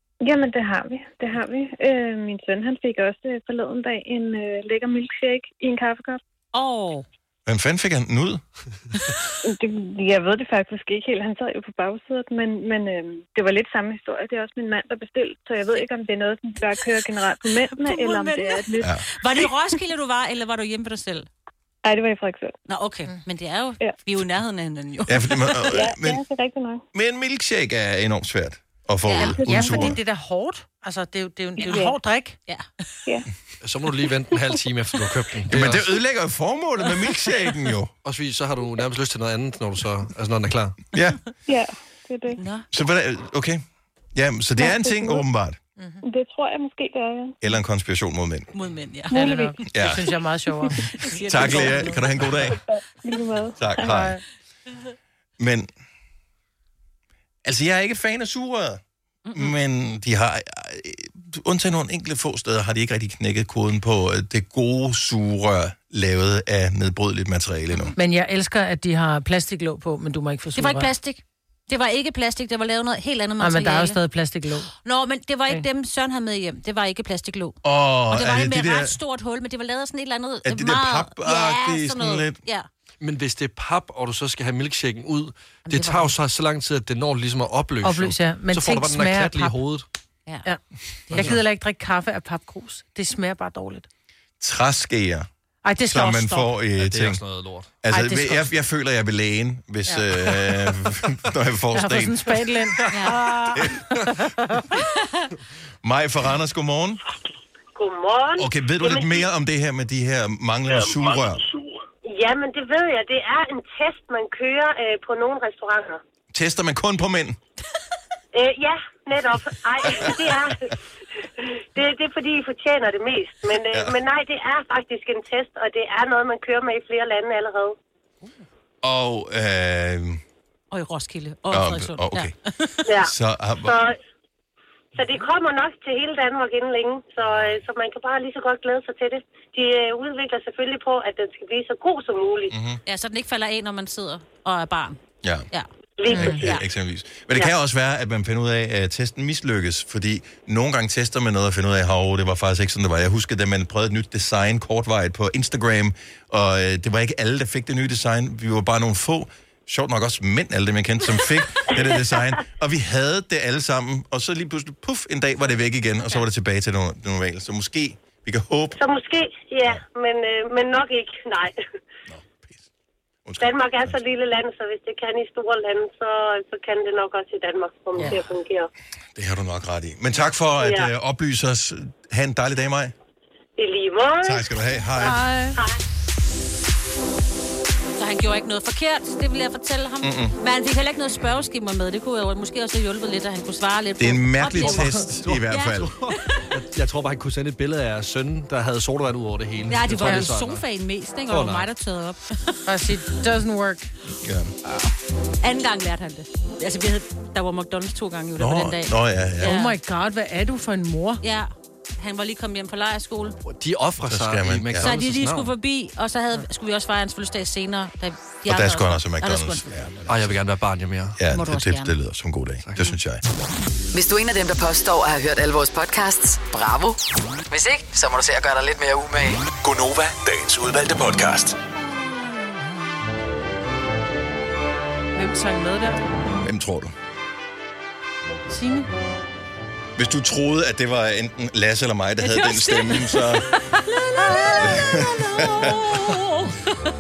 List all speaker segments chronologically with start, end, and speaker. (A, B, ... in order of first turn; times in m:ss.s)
0:00.2-0:06.2 A
0:06.5-0:07.1 B
0:07.5-0:08.4 C
0:09.4-0:19.0 A
0:17.8-0:21.3 B
0:21.8-0:22.6 A
0:22.7-0:25.6 B
0:25.1-0:26.2 C
0:25.6-0:26.8 A
0:26.9-0:30.0 C
0:29.1-0:29.4 B
0:29.2-0:29.9 A
0:29.4-0:32.4 D
0:31.6-0:32.0 A
0:33.6-0:35.9 E
0:35.5-0:37.9 C
0:38.0-0:40.8 E
0:40.9-0:41.2 C
0:41.5-0:42.4 A
0:42.4-0:42.7 B
0:42.7-0:43.6 C
0:44.1-0:45.6 C
0:44.6-0:45.3 A
0:45.8-0:46.0 D
0:46.0-0:47.4 A
0:47.4-0:48.5 C
0:48.5-0:49.6 B
0:49.1-0:52.0 D
0:49.7-0:50.1 C
0:51.0-0:52.1 B
0:51.3-0:52.6 C
0:53.0-0:54.0 A
0:53.6-0:54.2 C
0:53.8-0:54.2 D
0:55.4-0:55.7 C
0:57.4-0:58.8 C
0:59.3-0:59.6 B
0:59.4-1:08.0 C
1:07.7-1:08.0 B
1:08.0-1:10.9 D
1:10.6-1:14.0 B
1:13.4-1:14.7 D
1:14.8-1:17.6 B
1:17.6-1:19.0 C
1:18.1-1:22.7 B
1:20.4-1:22.4 C
1:23.0-1:29.9 E
1:25.7-1:26.2 B
1:27.8-1:29.6 D
1:30.4-1:33.9 D
1:31.1-1:31.4 B
1:34.4-1:35.3 C
1:35.6-1:36.5 D
1:35.8-1:37.2 C
1:36.8-1:37.7 E
1:37.8-1:42.4 C
1:37.9-1:38.5 D
1:39.9-1:40.5 D
1:41.7-1:44.7 D
1:42.9-1:43.2 B
1:43.5-1:43.9 C
1:45.8-1:47.0 C
1:47.7-1:49.2 F
1:48.4-1:51.4 C
1:52.0-1:56.0 F
1:56.3-1:57.4 C
1:58.3-2:00.8 F
1:59.8-2:00.3 C
2:01.4-2:07.8 F
2:03.7-2:04.0 C
2:08.8-2:10.2 C
2:10.7-2:12.8 B
2:11.5-2:12.3 C
2:12.9-2:14.0 F
2:13.0-2:13.8 C
2:15.0-2:22.6 F
2:17.2-2:17.6 C
2:22.5-2:22.8 C
2:22.9-2:25.0 B
2:25.5-2:26.6 B
2:26.0-2:26.4 F
2:26.1-2:26.4 D
2:26.1-2:48.8 C
2:48.8-2:51.6 F
2:52.1-2:52.6 C
2:53.3-2:54.0 C
2:53.4-2:58.7 F
2:59.2-3:02.9 C
3:00.6-3:00.9 F
3:03.6-3:04.5 F
3:04.2-3:05.2 C
3:05.0-3:05.6 D
3:08.0-3:16.5 B
3:10.0-3:10.4 C
3:14.0-3:15.9 C
3:14.6-3:20.6 E
3:19.7-3:22.6 B
3:21.3-3:21.7 E
3:22.7-3:23.9 D
3:24.2-3:24.5 C
3:25.4-3:29.8 B
3:28.4-3:29.6 C
3:29.4-3:31.2 D
3:31.2-3:33.4 B
3:33.4-3:35.5 E
3:34.0-3:34.9 C
3:34.8-3:39.7 B
3:38.5-3:40.4 C
3:40.1-3:41.2 E
3:41.2-3:43.2 C
3:41.3-3:41.9 B
3:43.9-3:49.4 G
3:49.6-3:51.6 H
3:55.2-3:56.0 D
3:56.4-3:56.9 C
3:58.5-3:58.9 D
4:00.0-4:03.5 C
4:02.2-4:06.8 B
4:04.2-4:06.0 D
4:04.6-4:06.0 C